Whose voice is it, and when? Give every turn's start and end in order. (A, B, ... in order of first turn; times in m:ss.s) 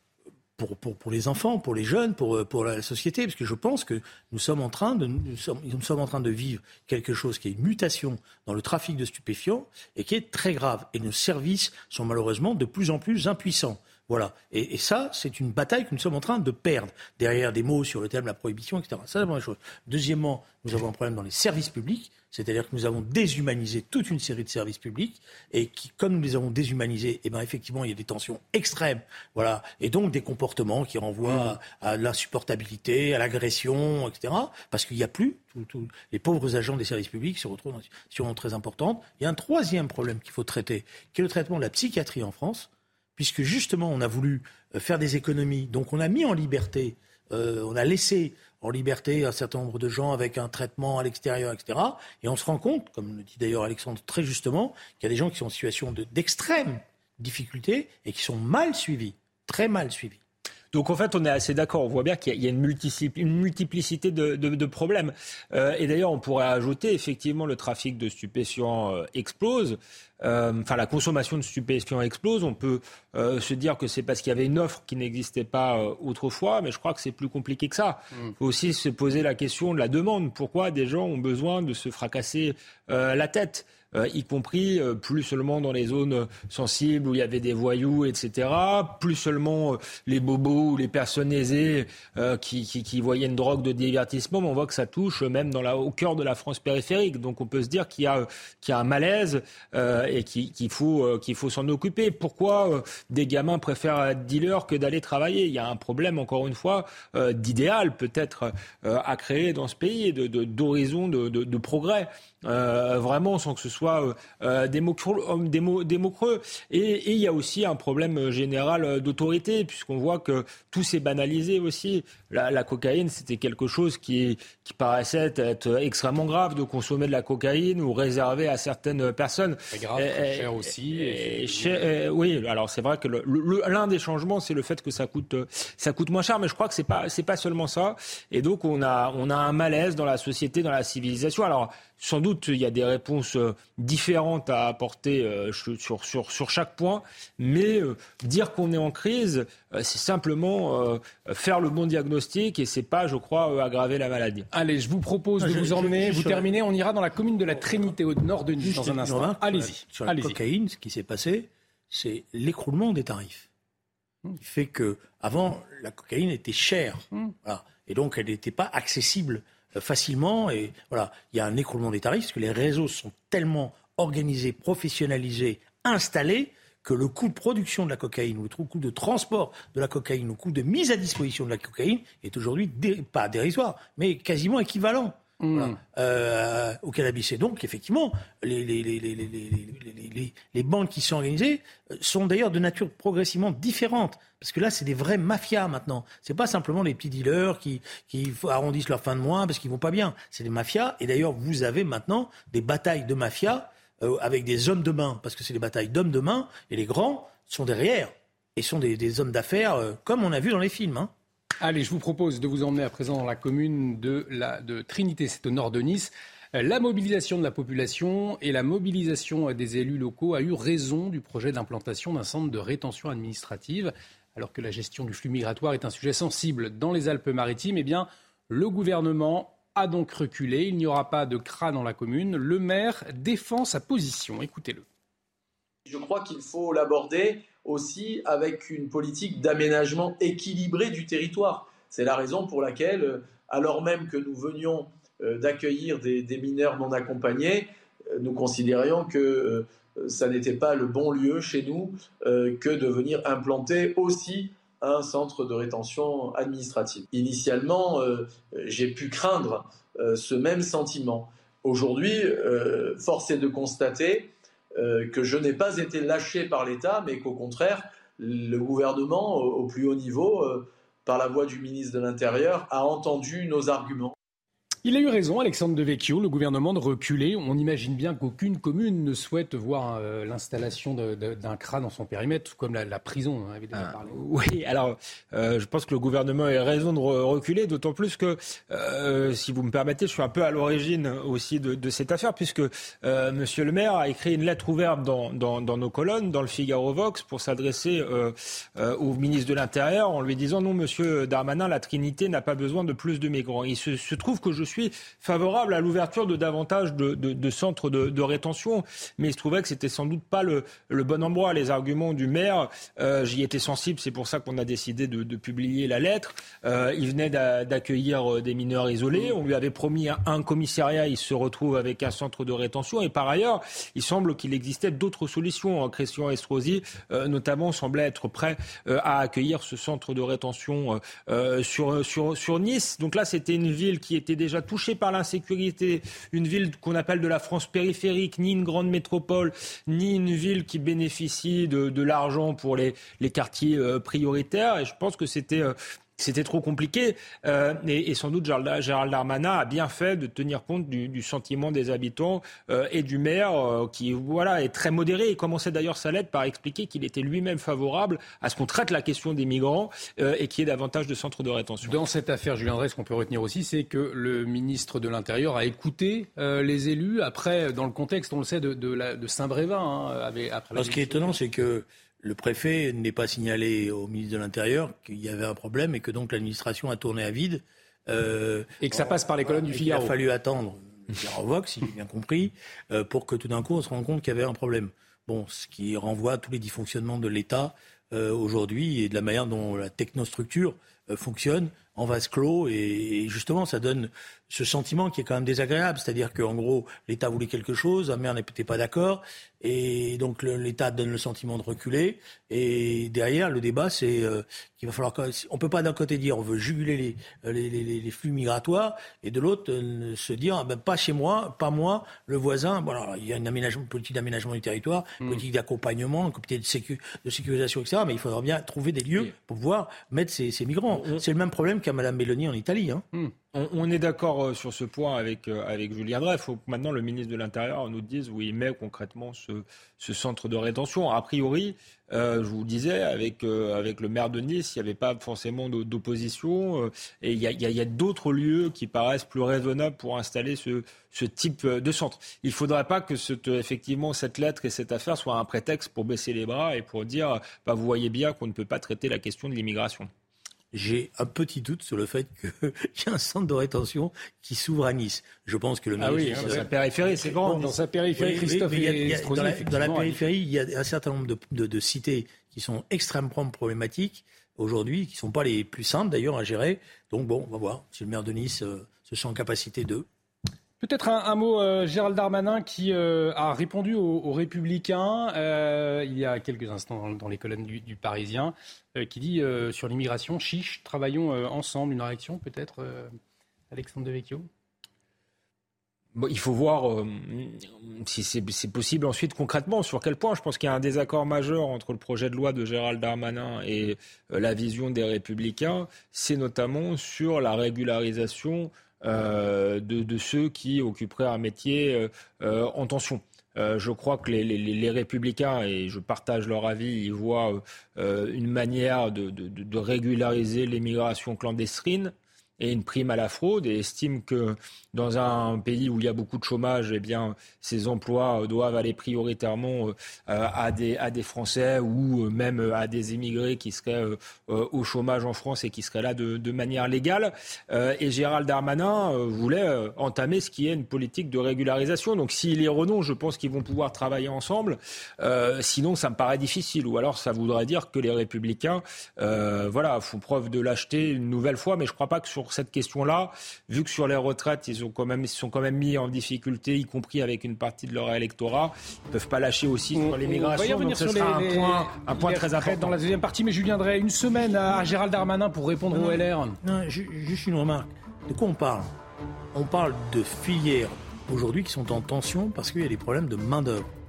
0:00.6-1:00.2 A
1:00.7-2:34.5 B
2:09.7-2:11.9 C
2:34.5-2:40.4 C
2:35.4-2:36.5 A
2:38.6-2:43.5 A
2:44.4-3:31.1 A
3:05.4-3:05.8 C
3:31.6-3:54.8 C
3:55.8-4:34.1 D
4:34.8-4:44.2 C
4:43.8-6:02.0 B
6:01.8-6:11.4 C
6:10.7-7:03.0 A
6:18.8-6:20.1 C
7:03.5-7:30.1 B
7:30.7-7:36.6 A
7:36.0-7:36.6 C
7:36.2-7:37.7 B
7:37.2-7:50.0 A
7:37.2-7:40.2 C
7:50.8-8:03.1 C
8:03.7-8:04.5 C
8:06.1-9:13.0 B
9:09.9-9:16.6 C
9:15.9-9:18.9 A
9:19.5-9:23.9 A